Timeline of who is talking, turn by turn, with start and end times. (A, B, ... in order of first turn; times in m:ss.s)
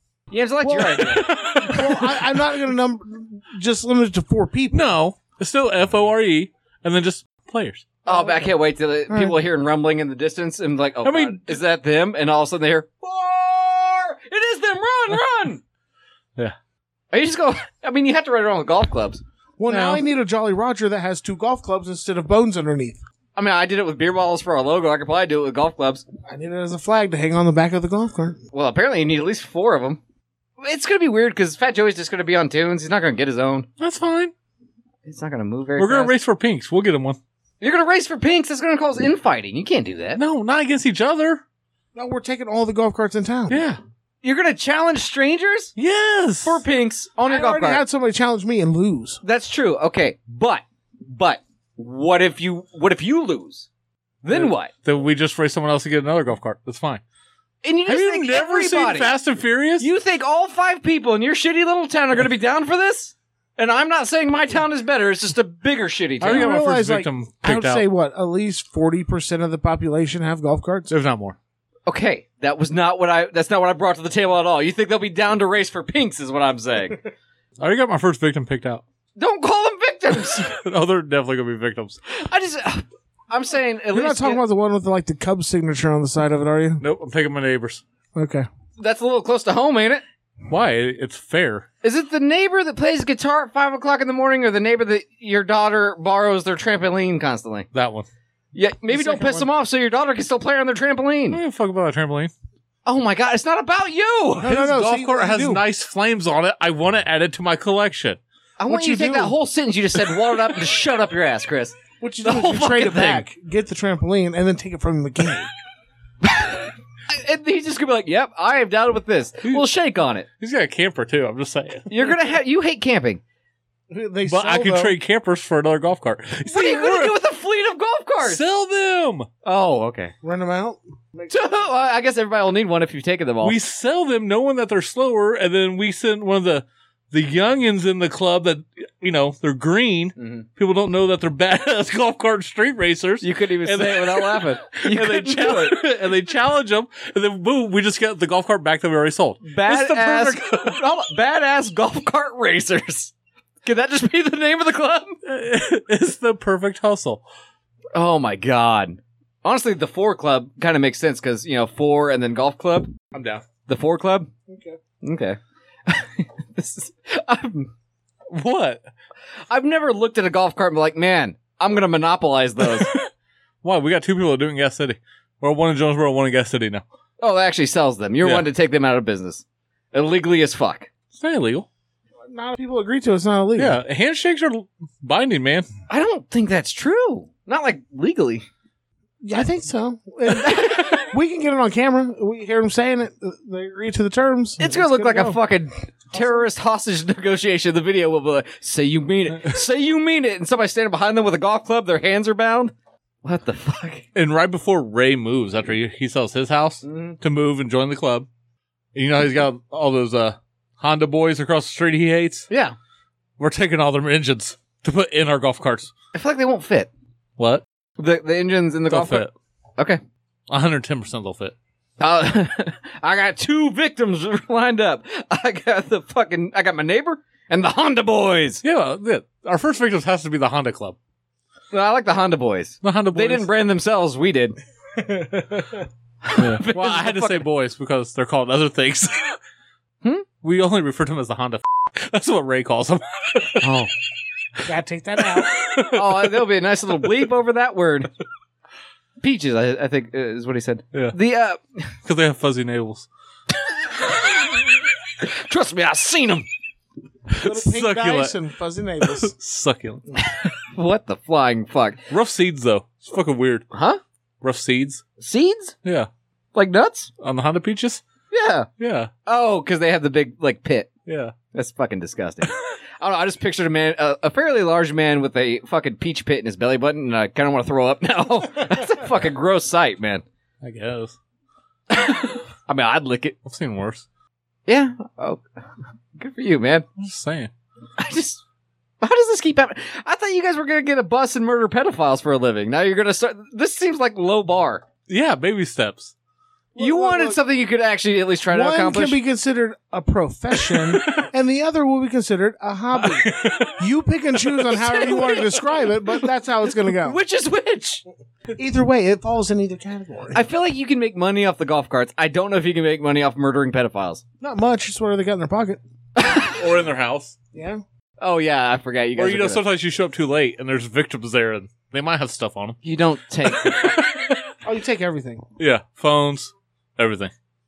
0:00.3-0:01.3 A
0:00.6-0:04.9 B
0:01.0-0:02.4 C
0:04.7-0:07.9 C
0:08.0-0:15.6 A
0:08.1-0:08.4 B
0:09.1-0:09.4 B
0:11.0-0:11.6 C
0:17.1-0:19.2 A
0:19.6-0:23.0 B
0:19.7-0:20.0 C
0:23.4-0:26.0 A
0:26.3-0:28.4 B
0:28.5-0:30.0 A
0:30.6-0:33.7 A
0:33.8-0:34.3 C
0:35.0-0:36.1 A
0:35.8-0:37.2 C
0:37.6-0:40.2 A
0:40.2-0:41.4 C
0:41.9-0:43.6 B
0:43.5-0:43.8 C
0:44.2-0:45.7 A
0:45.8-0:46.6 C
0:46.4-0:47.8 A
0:47.3-0:49.2 B
0:49.2-0:53.7 A
0:54.2-0:54.7 A
0:54.3-0:57.0 C
0:57.6-0:59.1 A
0:57.9-0:59.9 C
0:59.8-1:06.5 A
1:06.2-1:07.8 C
1:06.3-1:10.9 B
1:10.9-1:11.4 C
1:11.8-1:17.0 A
1:17.6-1:18.8 C
1:19.2-1:20.5 A
1:20.4-1:22.0 C
1:22.2-1:24.4 A
1:23.9-1:26.8 B
1:26.8-1:27.8 C
1:28.1-1:28.5 B
1:28.8-1:30.0 A
1:30.5-1:31.7 C
1:31.8-1:37.7 A
1:37.7-1:38.1 C
1:38.5-1:41.4 A
1:38.9-1:39.5 B
1:41.3-1:42.3 C
1:42.8-1:44.5 A
1:44.4-1:45.6 B
1:44.4-1:48.2 C
1:48.6-1:53.2 A
1:48.7-1:49.3 B
1:52.0-1:55.5 B
1:56.2-2:00.2 A
2:00.4-2:02.1 C
2:01.9-2:03.2 A
2:03.9-2:05.0 B
2:04.3-2:07.1 C
2:06.5-2:08.4 A
2:08.2-2:09.3 C
2:09.4-2:10.1 A
2:10.2-2:11.3 B
2:11.3-2:13.6 A
2:13.4-2:30.8 C
2:20.2-2:20.5 A
2:23.2-2:25.8 A
2:29.4-2:33.1 A
2:33.6-2:35.2 A
2:35.2-2:37.2 C
2:37.9-2:42.9 A
2:43.1-2:43.4 C
2:43.6-2:44.3 A
2:44.5-2:44.8 B
2:45.0-2:47.7 A
2:48.3-2:48.8 C
2:49.5-2:52.9 A
2:52.7-2:53.0 C
2:53.6-2:56.8 C
2:57.2-3:00.9 A
3:01.1-3:01.6 C
3:02.2-3:03.8 B
3:03.6-3:05.7 C
3:05.9-3:08.4 A
3:09.2-3:15.4 B
3:10.3-3:11.1 A
3:14.6-3:22.7 A
3:16.1-3:16.5 B
3:23.2-3:24.1 A
3:24.1-3:28.3 C
3:26.8-3:27.2 A
3:28.9-3:32.5 C
3:32.5-3:32.8 A
3:33.4-3:35.9 C
3:36.1-3:36.9 A
3:37.4-3:37.6 C
3:38.0-3:39.2 A
3:38.9-3:39.3 C
3:40.5-3:41.5 C
3:42.0-3:48.6 A
3:48.6-3:51.0 C
3:51.7-3:54.6 A
3:52.8-3:53.5 C
3:54.9-3:55.8 B
3:56.2-3:57.4 A
3:56.4-3:59.4 C
4:00.4-4:03.8 C
4:03.6-4:03.9 A
4:04.6-4:05.6 B
4:05.2-4:06.4 C
4:05.9-4:08.1 A
4:09.2-4:11.9 A
4:12.0-4:13.1 C
4:15.2-4:16.4 A
4:17.3-4:18.4 C
4:17.4-4:19.3 B
4:19.0-4:20.0 C
4:20.7-4:22.0 A
4:22.1-4:23.6 C
4:23.7-4:24.0 A
4:24.4-4:25.0 C
4:25.2-4:25.7 A
4:26.5-4:27.1 A
4:27.2-4:28.0 C
4:28.3-4:28.7 A
4:28.8-4:29.1 C
4:29.2-4:30.9 A
4:31.0-4:31.3 C
4:31.5-4:40.2 A
4:40.6-4:41.2 C
4:41.9-4:43.4 A
4:43.4-4:44.0 C
4:44.7-4:45.4 A
4:46.2-4:46.8 A
4:47.0-4:47.5 C
4:48.0-4:48.4 A
4:49.0-4:54.8 A
4:55.1-4:56.1 C
4:56.7-4:57.4 B
4:56.8-4:59.2 A
4:58.5-5:07.2 B
5:00.7-5:01.2 C
5:03.0-5:03.8 C
5:04.5-5:05.4 C
5:04.7-5:05.6 A
5:06.9-5:08.0 A
5:08.5-5:10.4 B
5:10.3-5:14.2 A
5:14.4-5:15.8 B
5:16.2-5:16.6 A
5:16.4-5:17.3 C
5:17.5-5:17.8 B
5:18.2-5:19.6 A
5:19.2-5:22.8 C
5:22.8-5:24.0 A
5:23.4-5:24.5 C
5:24.6-5:25.4 B
5:25.6-5:27.3 C